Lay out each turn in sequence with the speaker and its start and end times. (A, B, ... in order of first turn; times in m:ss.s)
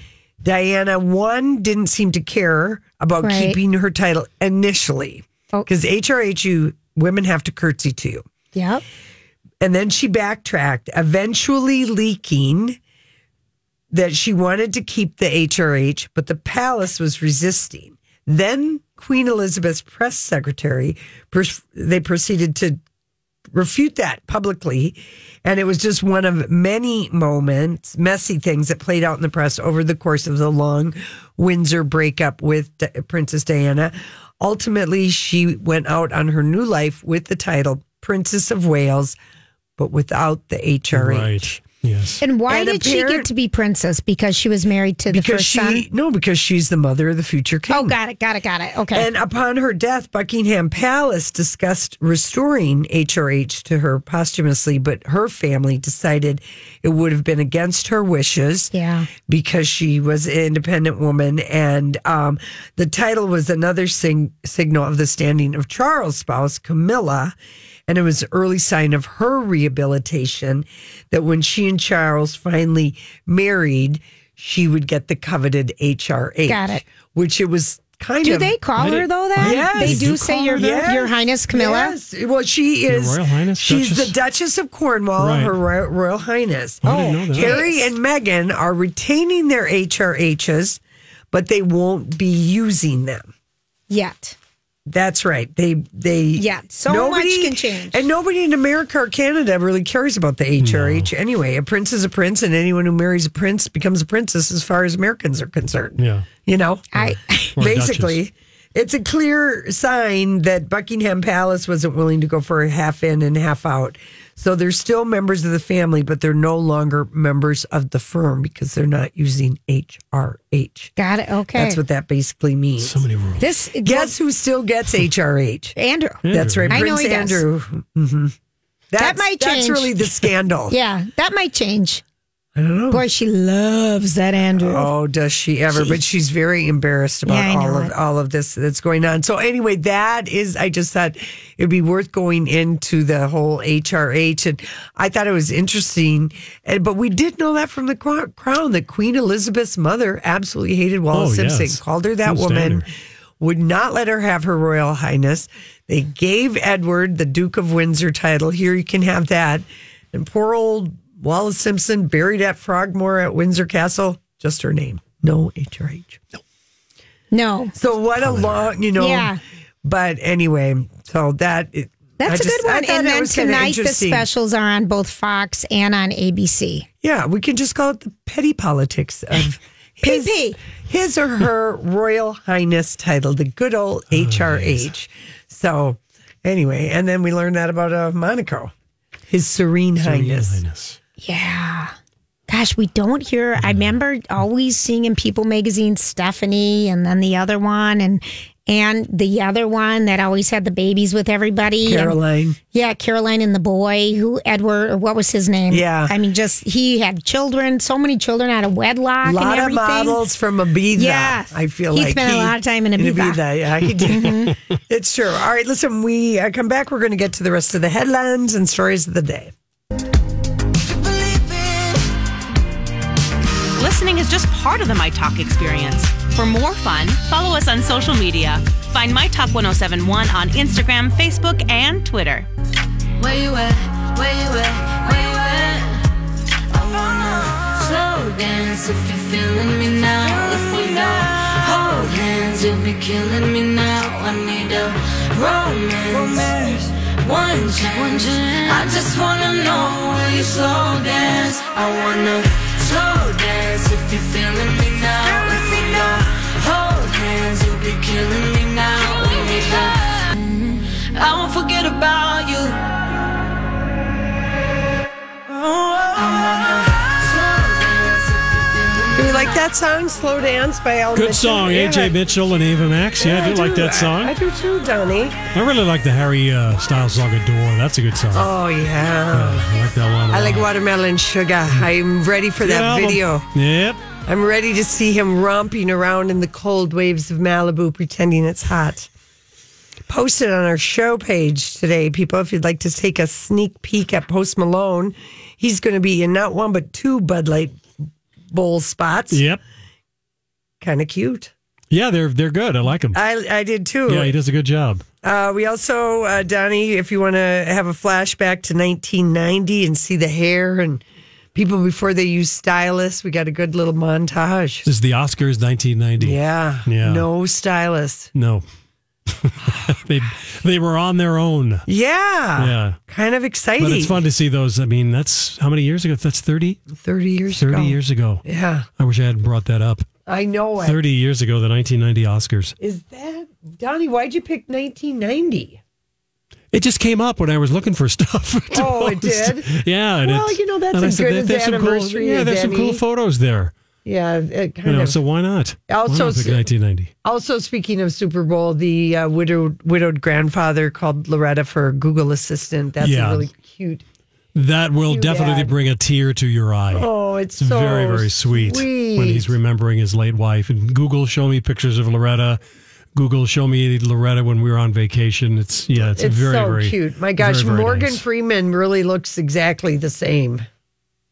0:00.4-0:08.2 A
0:03.2-0:03.6 B
0:08.5-0:08.8 B
0:09.6-0:12.8 A
0:13.9-0:22.8 A
0:23.5-0:39.2 A
0:39.8-0:41.6 A
0:40.9-0:42.2 C
0:42.2-0:45.8 B
0:42.5-0:43.3 A
0:45.1-0:48.0 A
0:47.7-0:49.1 B
0:48.9-0:58.7 A
0:58.7-0:59.1 B
0:59.2-1:07.3 A
1:07.9-1:18.6 A
1:16.4-1:16.8 B
1:18.2-1:22.0 B
1:18.8-1:20.6 C
1:19.4-1:30.8 A
1:22.9-1:24.1 C
1:25.2-1:25.5 C
1:26.8-1:27.6 C
1:26.8-1:27.9 B
1:31.3-1:33.3 A
1:33.9-1:34.4 B
1:34.9-2:00.9 A
1:36.4-1:38.0 B
1:40.6-1:41.1 C
1:46.0-1:46.3 C
1:47.0-1:47.5 B
1:47.0-1:48.2 C
2:01.0-2:01.8 B
2:01.5-2:03.0 A
2:02.8-2:03.4 C
2:03.4-2:04.1 B
2:03.8-2:05.8 A
2:05.8-2:07.4 B
2:06.2-2:06.8 C
2:06.3-2:08.3 A
2:08.9-2:10.7 A
2:09.0-2:09.9 B
2:10.7-2:12.0 B
2:12.5-2:13.0 A
2:12.9-2:14.9 B
2:14.6-2:32.9 A
2:17.3-2:17.9 B
2:31.1-2:32.8 C
2:33.4-2:46.2 A
2:47.3-2:47.7 B
2:47.7-2:54.2 A
2:48.2-2:48.7 C
2:49.0-2:49.4 B
2:52.2-2:56.9 B
2:57.0-3:08.7 A
3:00.0-3:00.6 B
3:04.1-3:04.8 C
3:09.3-3:10.6 A
3:10.0-3:11.0 C
3:11.2-3:11.9 B
3:12.5-3:22.2 B
3:21.8-3:22.6 A
3:22.7-3:30.2 B
3:25.7-3:26.2 A
3:29.2-3:39.5 A
3:30.9-3:33.4 B
3:34.0-3:34.5 B
3:43.8-3:52.5 D
3:53.2-3:56.0 E
3:56.7-4:22.8 E
4:06.2-4:06.7 A
4:25.5-4:29.4 E
4:29.1-4:32.2 A
4:31.1-4:34.3 C
4:33.2-4:35.4 A
4:35.5-4:38.5 C
4:38.3-4:39.6 A
4:39.3-4:40.6 C
4:40.3-4:43.5 A
4:42.6-4:44.0 C
4:44.2-4:49.1 A
4:50.1-4:57.8 A
4:58.5-4:59.4 A
4:59.3-4:59.6 C
5:00.8-5:01.5 A
5:01.9-5:03.2 C
5:03.1-5:04.3 A
5:04.1-5:05.0 C
5:05.2-5:11.0 A
5:11.5-5:14.9 A
5:14.8-5:17.2 C
5:16.2-5:18.3 A
5:18.3-5:18.6 C
5:19.3-5:21.8 C
5:21.9-5:24.2 A
5:22.6-5:23.0 C
5:23.8-5:26.8 C
5:26.9-5:28.9 A
5:27.5-5:28.4 C
5:29.0-5:30.1 C
5:30.2-5:31.0 A
5:30.8-5:32.7 C
5:32.8-5:35.8 A
5:36.7-5:43.7 C
5:38.7-5:43.0 A
5:44.0-5:45.2 A
5:44.8-5:47.1 C
5:45.9-5:46.6 A
5:47.2-5:54.0 A
5:53.0-5:53.5 C
5:54.5-6:02.6 C
5:55.1-5:55.7 A
5:56.9-5:59.5 A
6:03.1-6:08.2 C
6:06.1-6:10.6 A